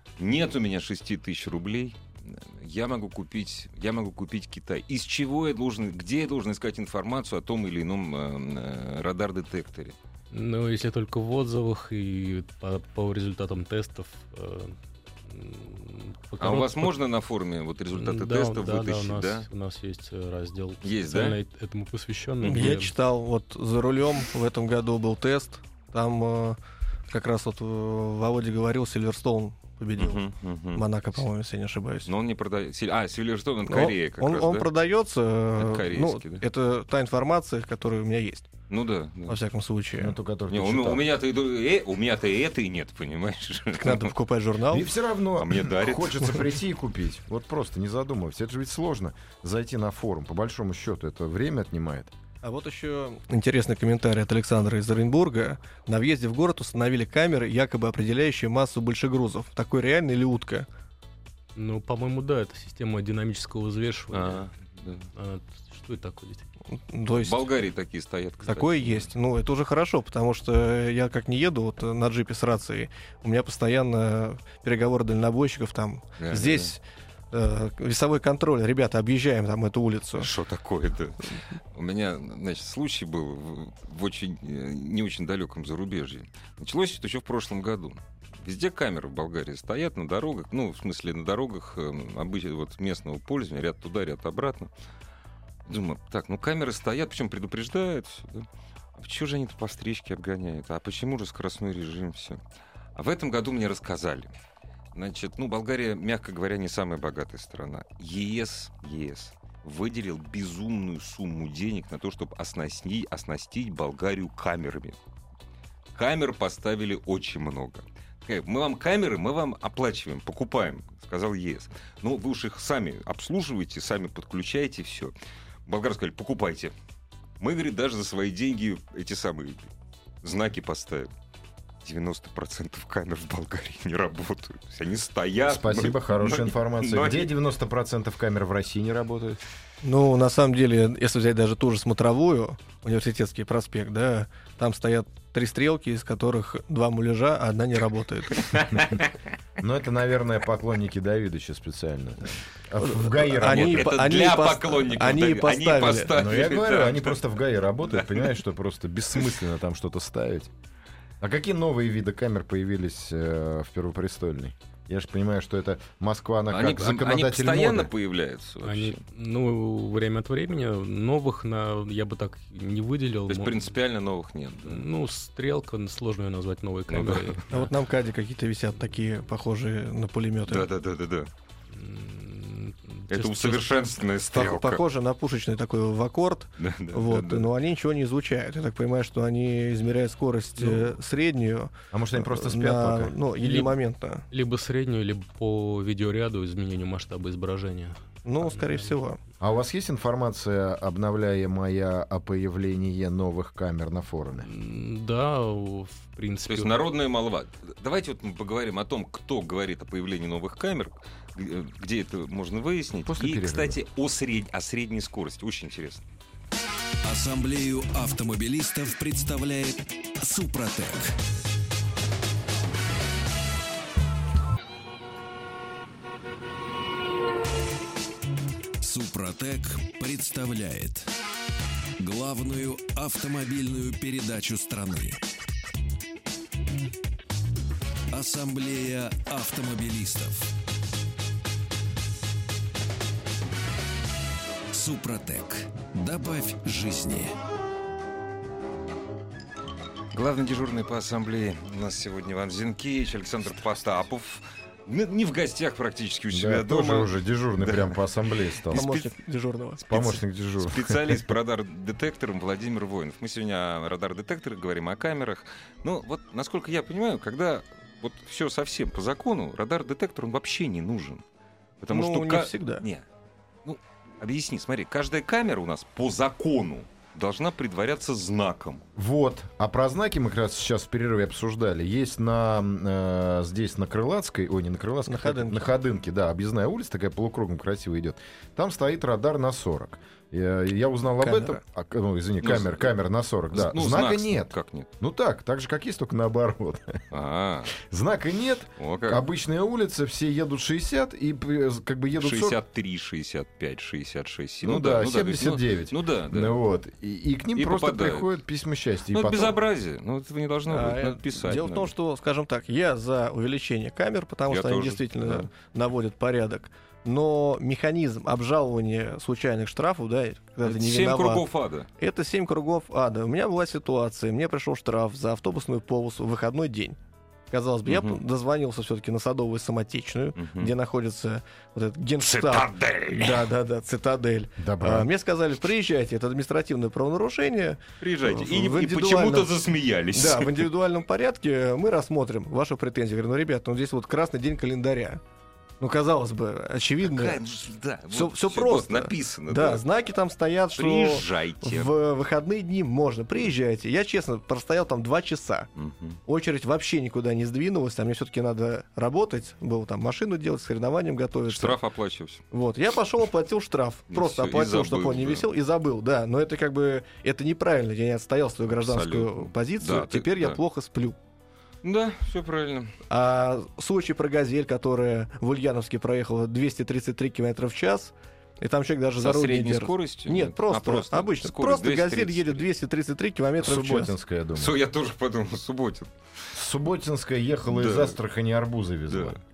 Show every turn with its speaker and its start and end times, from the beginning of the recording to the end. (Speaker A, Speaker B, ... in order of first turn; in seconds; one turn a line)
Speaker A: 0.2-10.0
Speaker B: 10.3-16.9
Speaker A: 16.4-19.5
Speaker B: 17.9-22.9
Speaker A: 20.8-21.4
Speaker A: 22.4-22.7
Speaker C: 22.5-26.6
Speaker C: 27.1-30.2
Speaker A: 30.0-31.2
Speaker C: 30.8-32.1
Speaker A: 32.1-34.7
Speaker C: 33.7-38.5
Speaker A: 35.6-36.4
Speaker A: 38.7-39.4
Speaker C: 39.3-40.1
Speaker D: 40.0-41.0
Speaker A: 40.5-44.1
Speaker C: 43.8-44.9
Speaker D: 44.7-52.1
Speaker A: 45.4-46.5
Speaker C: 52.4-60.7
Speaker B: 61.5-64.5
Speaker A: 64.1-65.1
Speaker B: 65.2-66.5
Speaker C: 66.7-67.5
Speaker A: 67.2-69.1
Speaker C: 68.5-80.3
Speaker A: 76.2-76.7
Speaker A: 80.2-94.7
Speaker A: 95.7-102.4
Speaker A: 103.0-104.3
Speaker A: 104.9-115.0
Speaker A: 115.9-125.1
Speaker A: 125.7-126.7
Speaker A: 127.4-129.7
Speaker A: 130.2-131.1
Speaker A: 131.8-137.3
Speaker D: 135.4-139.4
Speaker C: 139.8-148.6
Speaker A: 148.3-149.1
Speaker D: 149.6-153.9
Speaker C: 152.8-156.1
Speaker A: 153.4-157.2
Speaker D: 156.1-160.5
Speaker A: 157.8-158.3
Speaker D: 161.2-167.9
Speaker A: 166.5-169.0
Speaker B: 168.6-173.7
Speaker A: 173.3-174.8
Speaker B: 174.7-177.7
Speaker A: 176.9-177.4
Speaker C: 177.5-180.7
Speaker A: 180.5-181.3
Speaker B: 181.7-183.7
Speaker A: 183.1-184.8
Speaker C: 184.3-194.2
Speaker A: 186.6-187.5
Speaker D: 191.9-193.2
Speaker B: 193.4-193.8
Speaker B: 194.3-199.0
Speaker C: 198.2-199.2
Speaker D: 199.4-204.5
Speaker B: 204.4-206.8
Speaker A: 206.5-216.0
Speaker D: 213.1-213.8
Speaker E: 217.0-221.2
Speaker E: 228.8-231.1
Speaker E: 232.0-235.2
Speaker E: 238.1-240.5
Speaker E: 244.7-247.4
Speaker A: 250.1-258.0
Speaker D: 256.3-258.9
Speaker A: 258.7-259.1
Speaker C: 258.7-259.9
Speaker D: 259.9-261.3
Speaker A: 259.9-271.2
Speaker A: 271.8-273.1
Speaker C: 271.9-272.9
Speaker A: 273.6-278.9
Speaker D: 279.0-297.0
Speaker C: 285.1-285.7
Speaker C: 291.2-291.6
Speaker A: 292.4-292.9
Speaker A: 293.5-294.9
Speaker A: 297.1-297.8
Speaker D: 297.8-302.6
Speaker A: 298.8-299.2
Speaker A: 302.2-306.6
Speaker D: 304.6-309.6
Speaker A: 307.6-308.3
Speaker A: 309.1-311.9
Speaker C: 310.7-321.4
Speaker A: 314.5-315.5
Speaker A: 320.6-321.9
Speaker C: 322.0-327.0
Speaker C: 327.5-339.5
Speaker A: 327.9-328.2
Speaker A: 330.4-330.7
Speaker A: 332.2-333.5
Speaker D: 334.6-335.1
Speaker A: 338.0-340.7
Speaker C: 340.1-345.2
Speaker C: 345.8-347.4
Speaker A: 347.0-349.9
Speaker C: 348.1-355.7
Speaker A: 350.8-351.9
Speaker A: 355.8-356.2
Speaker C: 356.3-361.8
Speaker A: 361.5-362.4
Speaker C: 362.5-371.2
Speaker A: 364.1-365.5
Speaker A: 368.8-370.6
Speaker A: 371.8-373.0
Speaker C: 373.1-384.1
Speaker A: 379.2-382.6
Speaker D: 383.6-384.8
Speaker A: 384.6-386.1
Speaker D: 386.5-389.4
Speaker A: 387.7-388.2
Speaker A: 389.1-389.4